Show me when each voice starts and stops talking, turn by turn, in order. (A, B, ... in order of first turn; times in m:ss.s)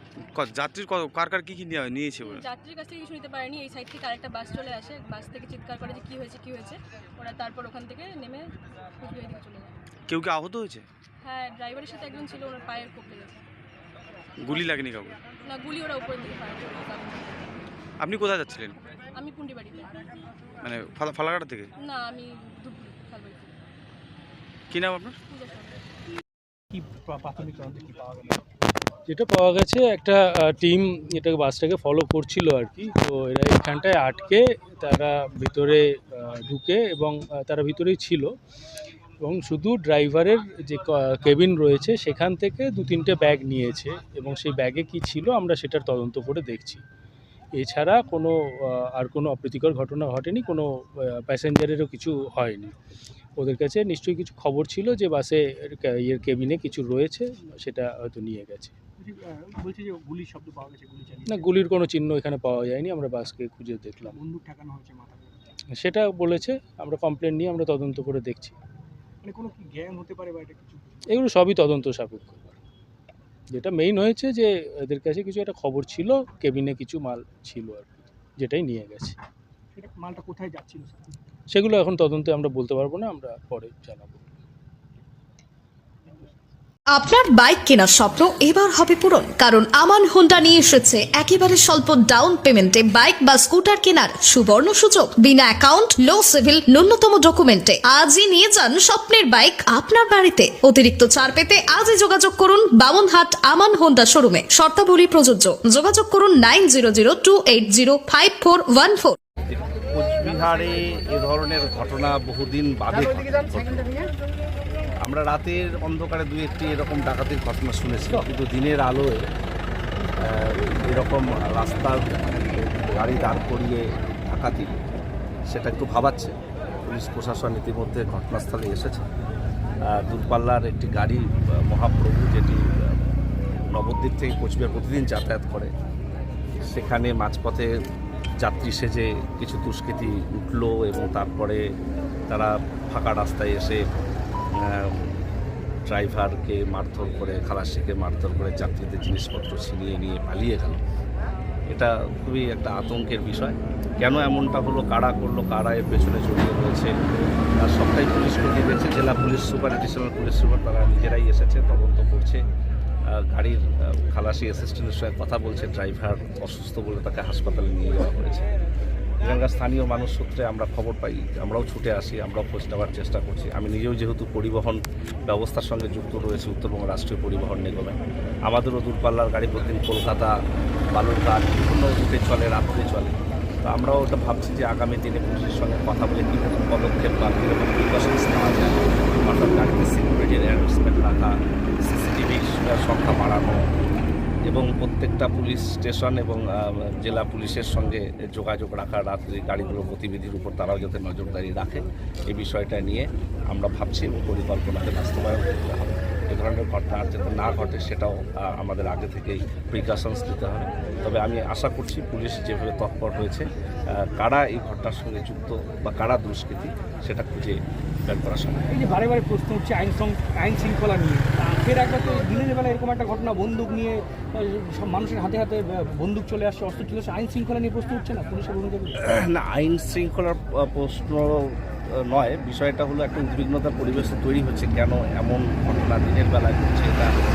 0:00.3-0:02.4 A
0:02.2-0:09.7 B
0:10.1-0:10.8 A
0:11.2-0:13.4 B
0:14.4-0:15.2 A
0:14.5-0:14.8 B
0:15.4-0:17.5 B
0:18.0-0:18.7 A
0:19.2-0:20.0 B
0:20.6-0:21.7 A
0:21.8-0:23.5 B
0:24.7-0:25.1 A
0:25.2-0:25.8 B
0:26.7-0:28.5 C
0:29.1-0:38.3 D
0:39.2-0:46.8 D
0:47.5-0:52.7 D
0:53.4-0:58.7 D
0:59.0-1:01.5 C
1:01.3-1:04.2 D
1:04.1-1:05.5 C
1:05.7-1:08.5 D
1:09.2-1:11.0 C
1:11.1-1:12.6 D
1:13.5-1:19.1 D
1:19.7-1:21.2 C
1:21.5-1:24.2 D
1:26.0-1:26.4 C
1:26.9-1:49.2 E
1:49.5-1:53.8 F
1:55.0-1:59.2 F
2:00.2-2:04.7 F
2:05.5-2:09.0 F
2:09.8-2:12.9 F
2:13.7-2:15.7 F
2:16.6-2:17.7 F
2:18.4-2:21.7 F
2:22.3-2:23.8 F
2:24.6-2:25.2 F
2:25.9-2:30.8 F
2:31.7-2:36.9 F
2:37.6-2:42.4 F
2:43.1-2:48.4 F
2:49.2-2:58.0 F
2:58.5-3:00.3 F
3:00.9-3:13.6 F
3:14.5-3:38.6 F
3:38.7-3:49.0 C
3:49.1-3:57.1 F